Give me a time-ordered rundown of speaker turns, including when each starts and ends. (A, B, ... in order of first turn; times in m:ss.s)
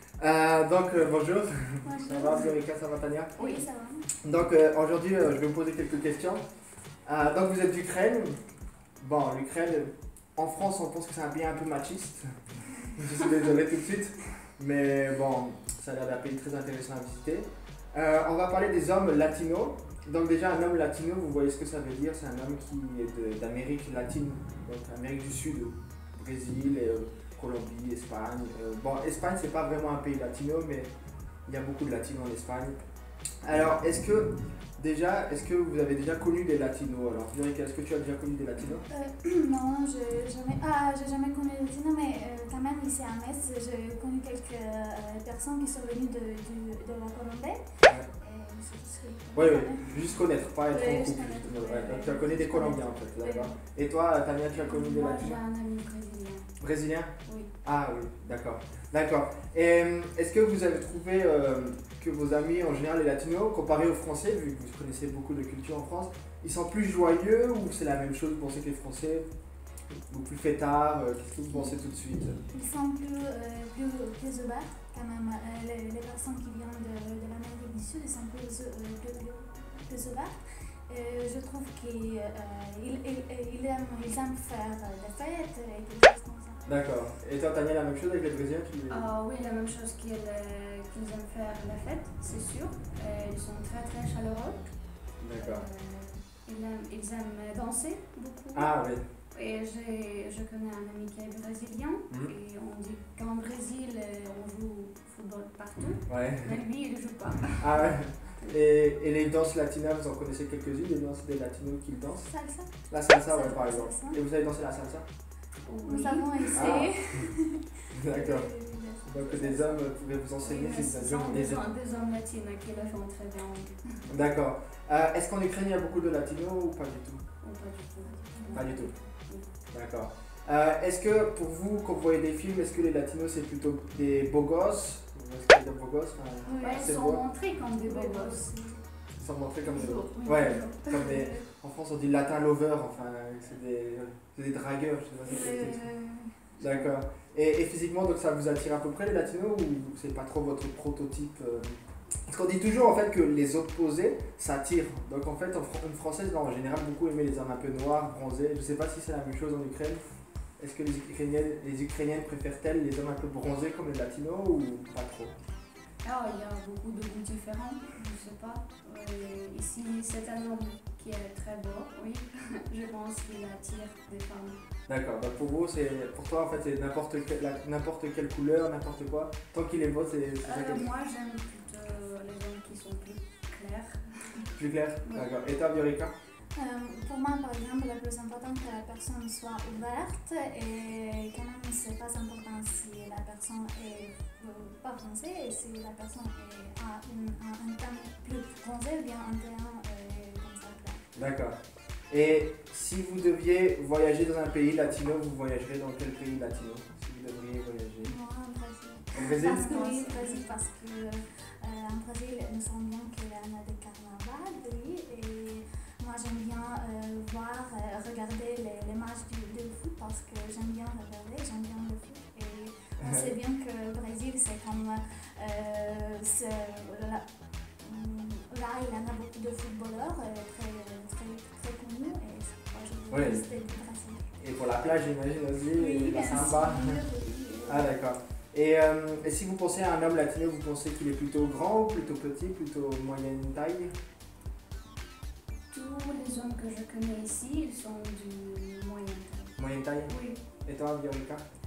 0:00.2-0:03.6 A
0:01.8-0:02.6 B
0:03.4-0:04.1 B
0:04.2-0:06.4 A
0:07.0-0:08.4 A
0:09.0-0:30.9 A
0:31.5-0:32.8 A
0:33.4-0:38.8 A
0:38.9-0:53.6 B
0:49.3-0:55.4 A
0:54.5-0:56.5 C
0:56.6-1:09.3 A
0:57.2-0:57.5 C
1:10.1-1:12.4 A
1:12.5-1:20.4 B
1:20.9-1:26.6 B
1:26.6-1:29.1 A
1:28.9-1:34.7 C
1:35.2-1:35.7 A
1:35.4-1:38.7 C
1:38.5-1:39.0 A
1:39.3-1:48.6 C
1:46.1-1:46.6 A
1:47.6-1:52.3 A
1:52.2-1:54.2 B
1:52.9-1:55.1 A
1:55.6-1:56.7 C
1:55.8-1:59.8 B
1:56.5-1:57.3 A
1:57.9-1:58.5 A
1:59.0-2:01.7 A
2:00.4-2:04.0 C
2:04.1-2:07.2 A
2:07.4-2:09.5 C
2:08.1-2:08.8 B
2:08.5-2:08.9 A
2:09.7-2:17.2 A
2:16.4-2:16.9 B
2:16.6-2:18.4 C
2:17.8-2:18.8 B
2:19.1-2:25.8 A
2:19.6-2:21.1 C
2:20.9-2:21.4 B
2:25.2-2:26.4 B
2:26.6-2:40.0 A
2:40.6-2:45.3 A
2:46.0-2:54.6 C
2:54.9-3:00.9 A
3:00.4-3:04.5 C
3:04.6-3:06.1 A
3:05.0-3:05.3 C
3:06.6-3:21.0 B
3:21.2-3:21.6 A
3:22.1-3:28.2 A
3:28.1-3:47.2 B
3:29.2-3:29.7 A
3:29.6-3:30.5 C
3:43.0-3:43.4 A
3:47.8-3:54.3 B
3:53.1-3:53.5 A
3:54.4-3:57.1 A
3:55.7-3:58.0 B
3:57.6-4:03.9 A
4:05.7-4:09.6 C
4:09.6-4:11.4 A
4:10.1-4:10.4 C